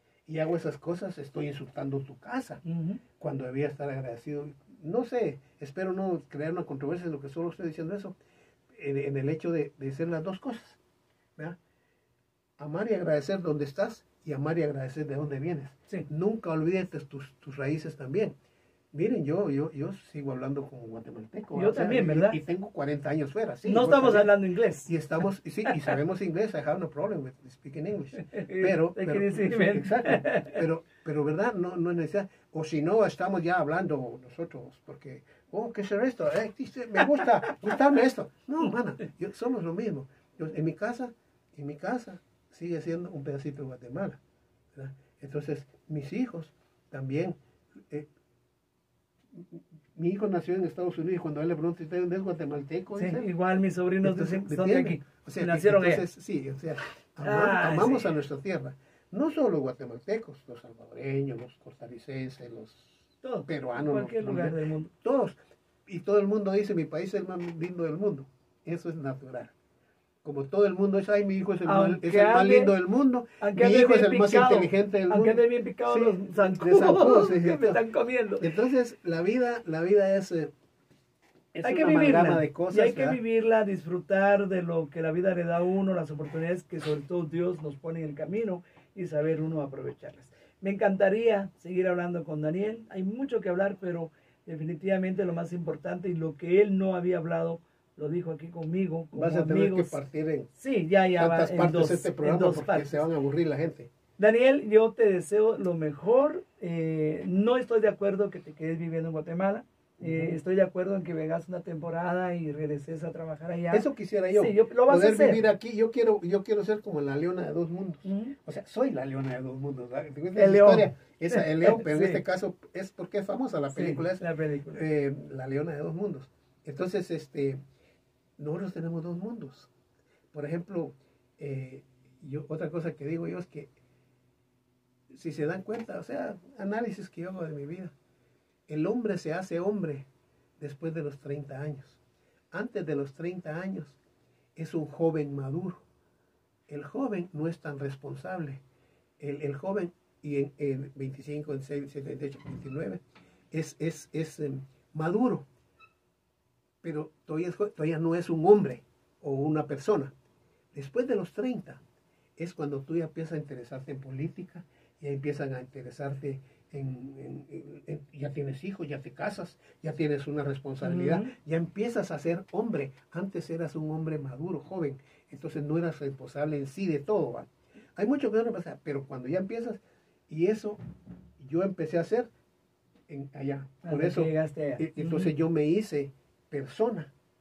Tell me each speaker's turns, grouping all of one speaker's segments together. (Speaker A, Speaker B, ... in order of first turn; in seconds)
Speaker A: 0.3-2.6, 3.2-8.2, 8.7-10.8, 12.6-18.3, 18.9-24.3, 24.9-44.2, 44.7-47.4, 49.3-53.3, 54.0-69.5, 70.2-77.8, 78.4-80.5, 81.5-83.2, 99.1-100.5, 101.2-103.9, 110.0-110.4, 113.7-127.6, 128.4-129.7, 130.3-133.7, 135.1-137.9, 138.7-140.1, 140.6-142.0, 142.5-144.0, 144.6-145.8, 146.7-148.6, 149.2-155.5, 156.8-160.1, 160.7-161.8, 162.4-180.8, 181.4-182.3, 183.1-187.1
Speaker B: 2.6-3.0, 21.6-22.4, 23.6-24.9, 28.2-30.6, 37.2-37.5, 53.0-56.0, 57.2-58.1, 63.2-64.9, 71.7-72.7, 73.4-78.5, 81.6-100.0, 100.5-103.1, 104.2-115.4, 118.0-118.3, 120.3-122.2, 123.7-124.8, 170.8-171.3, 183.8-185.3